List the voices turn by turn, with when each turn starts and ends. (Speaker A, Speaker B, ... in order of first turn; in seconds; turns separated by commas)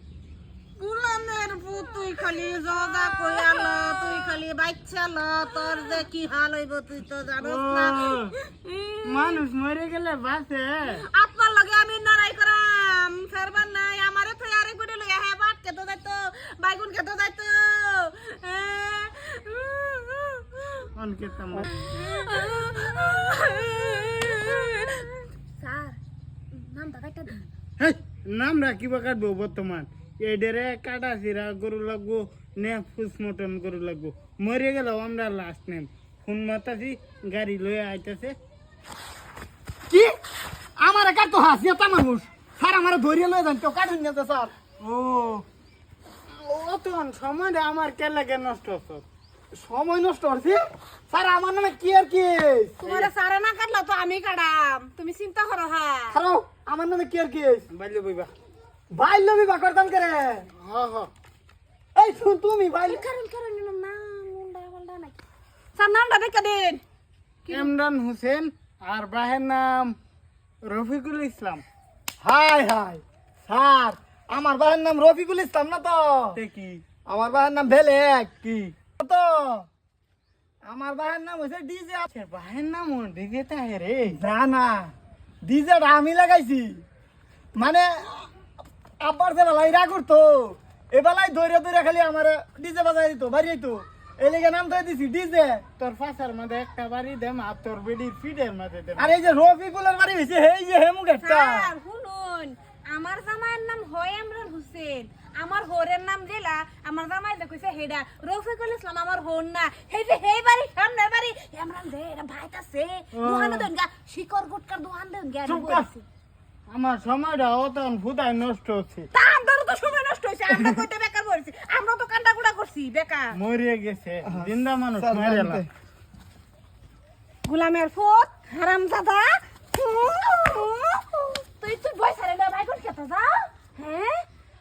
Speaker A: 0.8-9.4, Speaker B: 7.4-8.3, Speaker B: 9.0-11.0, Speaker A: 11.0-20.9, Speaker B: 20.9-21.7, Speaker A: 21.7-26.0, Speaker A: 26.5-27.4, Speaker B: 27.8-38.4, Speaker C: 39.9-40.2, Speaker C: 40.8-44.5, Speaker B: 44.8-45.4, Speaker B: 46.3-49.0, Speaker C: 49.5-52.8, Speaker A: 52.8-56.2, Speaker B: 52.8-53.1, Speaker C: 56.1-57.7, Speaker B: 57.7-58.3, Speaker C: 58.9-60.5, Speaker B: 60.5-61.1, Speaker C: 62.0-63.0, Speaker A: 62.8-65.2, Speaker A: 65.8-66.8, Speaker B: 67.5-70.0, Speaker B: 70.7-71.6, Speaker C: 72.2-76.4, Speaker B: 76.3-76.8, Speaker C: 77.0-79.7, Speaker C: 80.6-82.1, Speaker B: 82.1-84.2, Speaker C: 84.2-86.8, Speaker C: 87.5-88.3, Speaker C: 89.0-95.6, Speaker B: 95.8-99.2, Speaker C: 99.0-101.7, Speaker A: 101.2-116.0, Speaker B: 113.1-113.7, Speaker B: 115.5-115.9, Speaker B: 116.7-119.1, Speaker A: 119.1-123.4, Speaker B: 120.5-120.8, Speaker B: 123.3-125.7, Speaker C: 124.2-125.7, Speaker A: 127.4-134.2